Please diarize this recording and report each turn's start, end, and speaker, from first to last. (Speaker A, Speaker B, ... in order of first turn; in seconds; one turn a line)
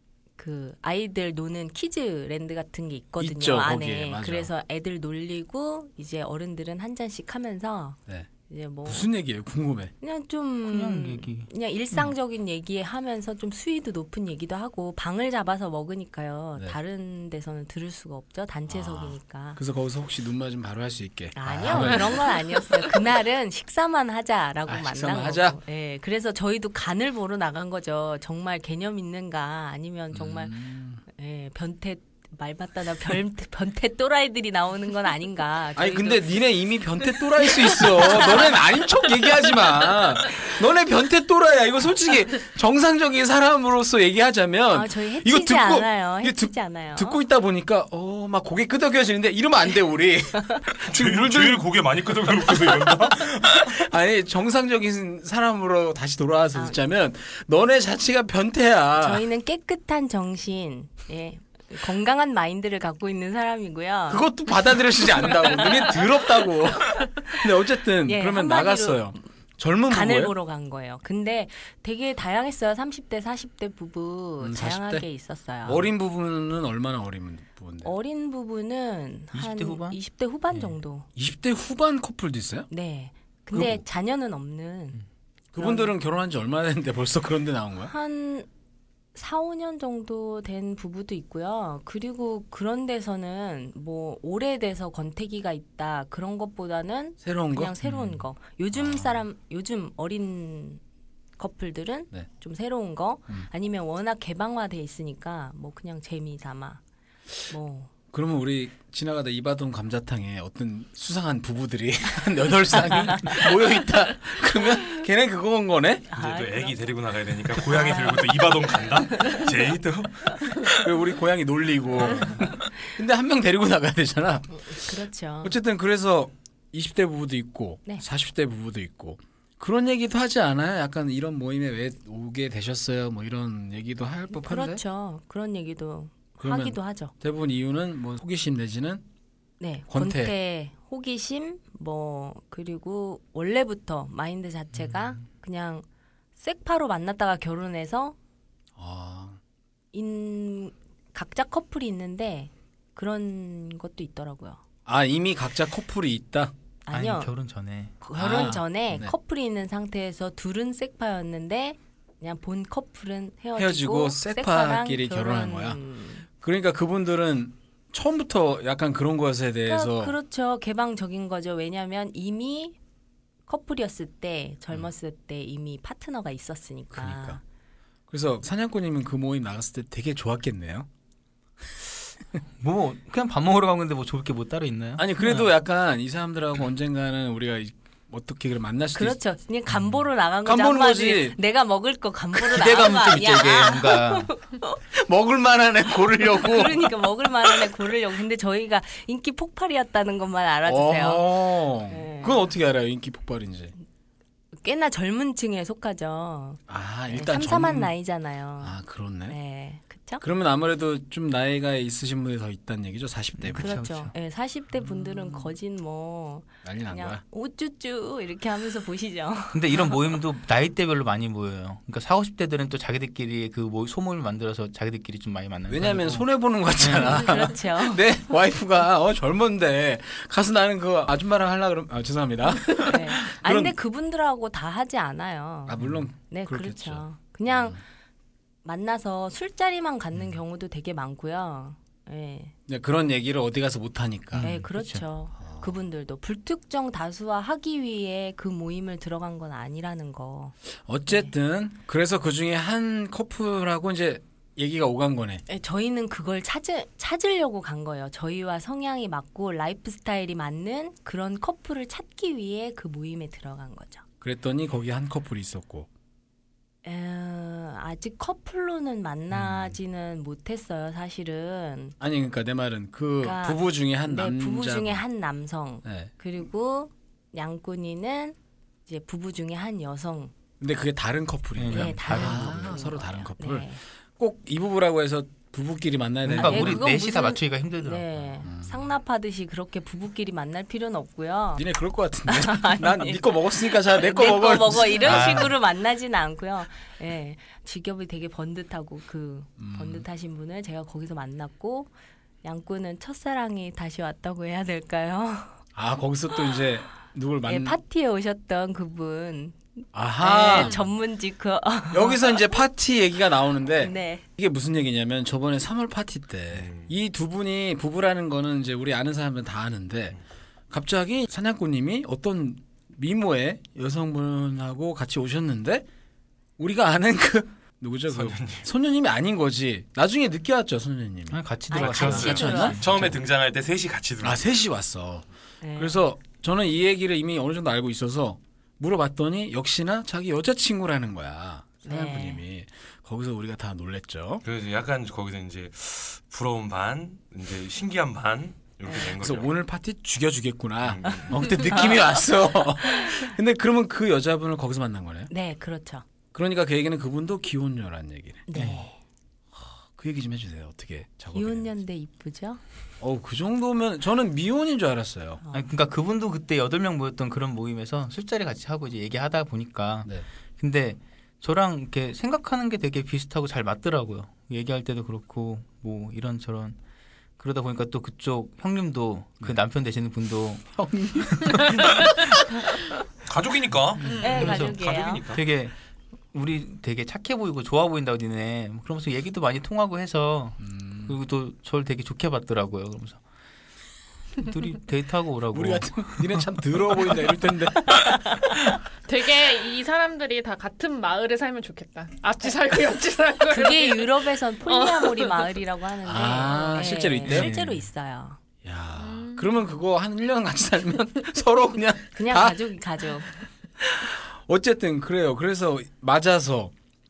Speaker A: 0.4-9.1
Speaker B: 3.2-4.5
Speaker B: 8.8-9.9
Speaker A: 10.0-19.6
Speaker C: 10.6-11.5
Speaker B: 18.7-22.4
Speaker A: 21.3-30.5
Speaker B: 24.6-25.6
Speaker B: 30.1-31.0
Speaker A: 31.1-36.3
Speaker B: 35.8-59.2
Speaker A: 37.4-38.5
Speaker A: 44.7-47.2
Speaker D: 50.9-53.7
Speaker A: 59.0-64.3
Speaker B: 64.1-70.3
Speaker A: 65.4-65.9
Speaker A: 68.0-69.1
Speaker A: 69.9-75.9
Speaker B: 74.4-75.0
Speaker B: 75.7-77.9
Speaker A: 77.8-81.1
Speaker C: 79.3-80.0
Speaker B: 81.2-82.7
Speaker A: 82.7-85.0
Speaker B: 83.5-83.8
Speaker B: 85.5-87.9
Speaker A: 85.6-85.9
Speaker A: 87.8-88.5
Speaker A: 89.1-100.8
Speaker B: 97.2-97.7
Speaker C: 97.8-98.2
Speaker B: 98.8-99.2
Speaker A: 101.4-106.8
Speaker A: 107.5-107.9
Speaker B: 108.1-116.1
Speaker A: 113.1-113.4
Speaker A: 116.1-116.8
Speaker D: 116.2-120.6
Speaker A: 117.6-118.5
Speaker A: 119.1-119.5
Speaker B: 120.8-134.8
Speaker A: 122.0-122.6
Speaker A: 124.5-125.5
Speaker A: 134.3-137.1
Speaker B: 136.4-139.0
Speaker A: 139.6-145.8
Speaker B: 139.9-140.3
Speaker A: 146.4-148.2
Speaker B: 148.8-149.4
Speaker A: 149.9-154.6
Speaker B: 154.8-156.5
Speaker A: 156.8-157.3
Speaker C: 156.9-158.0
Speaker A: 158.0-166.2
Speaker B: 158.2-159.1
Speaker B: 163.6-165.8
Speaker B: 166.4-170.1
Speaker A: 169.7-172.8
Speaker A: 173.5-177.4
Speaker B: 176.9-177.4
Speaker B: 178.1-180.9
Speaker C: 182.6-185.5
Speaker B: 185.0-189.2
Speaker A: 188.9-194.8
Speaker B: 190.4-191.4
Speaker C: 192.4-194.3
Speaker B: 192.5-193.2
Speaker B: 194.9-197.7
Speaker A: 196.2-202.4
Speaker B: 200.7-203.7
Speaker A: 204.5-208.7
Speaker B: 206.7-207.9
Speaker B: 208.6-209.4
Speaker A: 209.3-210.2
Speaker B: 210.2-213.8
Speaker C: 213.4-214.1
Speaker A: 213.6-219.9
Speaker B: 216.6-217.2
Speaker C: 219.5-226.2
Speaker B: 225.7-233.7
Speaker C: 226.8-227.5
Speaker A: 226.9-228.0
Speaker A: 232.8-237.8
Speaker B: 235.7-237.8
Speaker A: 238.6-242.5
Speaker B: 242.7-244.5
Speaker C: 244.3-245.0
Speaker A: 244.4-250.5
Speaker B: 245.4-245.8
Speaker B: 250.8-255.4
Speaker A: 255.5-264.0
Speaker B: 264.2-265.9
Speaker A: 266.8-271.9
Speaker B: 272.0-275.0
Speaker A: 273.2-278.4
Speaker B: 275.8-276.1
Speaker A: 278.9-280.3
Speaker B: 280.6-286.9
Speaker C: 281.6-282.8
Speaker A: 281.7-283.8
Speaker C: 286.2-288.4
Speaker A: 286.4-291.6
Speaker B: 288.4-288.8
Speaker B: 291.6-295.5
Speaker A: 292.2-301.9
Speaker C: 295.0-295.6
Speaker B: 299.6-300.1
Speaker A: 302.4-305.5
Speaker B: 305.7-307.8
Speaker A: 307.4-312.4
Speaker B: 309.9-310.8
Speaker B: 311.9-320.2
Speaker A: 313.8-314.2
Speaker D: 316.5-316.9
Speaker B: 320.7-325.9
Speaker B: 326.6-333.1
Speaker D: 328.1-328.6
Speaker C: 331.3-333.1
Speaker A: 331.7-332.8
Speaker D: 331.8-334.4
Speaker B: 334.2-344.4
Speaker A: 335.6-336.0
Speaker A: 341.8-342.4
Speaker D: 344.4-349.5
Speaker B: 348.9-355.3
Speaker D: 350.8-351.6
Speaker A: 351.6-352.2
Speaker A: 353.0-353.3
Speaker A: 355.3-356.0
Speaker B: 356.3-358.4
Speaker A: 358.5-359.0
Speaker C: 358.5-358.9
Speaker B: 359.6-361.8
Speaker A: 361.3-362.6
Speaker B: 363.0-365.4
Speaker C: 365.5-376.8
Speaker C: 377.4-382.4
Speaker B: 380.8-381.8
Speaker D: 383.2-385.4
Speaker C: 384.1-384.8
Speaker A: 384.2-385.2
Speaker C: 385.3-385.7
Speaker C: 386.3-393.2
Speaker B: 390.6-391.2
Speaker C: 394.4-396.4
Speaker B: 395.5-398.2
Speaker A: 398.0-398.4
Speaker E: 399.1-405.6
Speaker A: 403.5-408.4
Speaker B: 406.0-407.5
Speaker E: 406.5-406.8
Speaker C: 407.2-407.8
Speaker B: 408.6-412.6
Speaker E: 408.9-409.8
Speaker A: 412.1-413.3
Speaker B: 413.8-416.7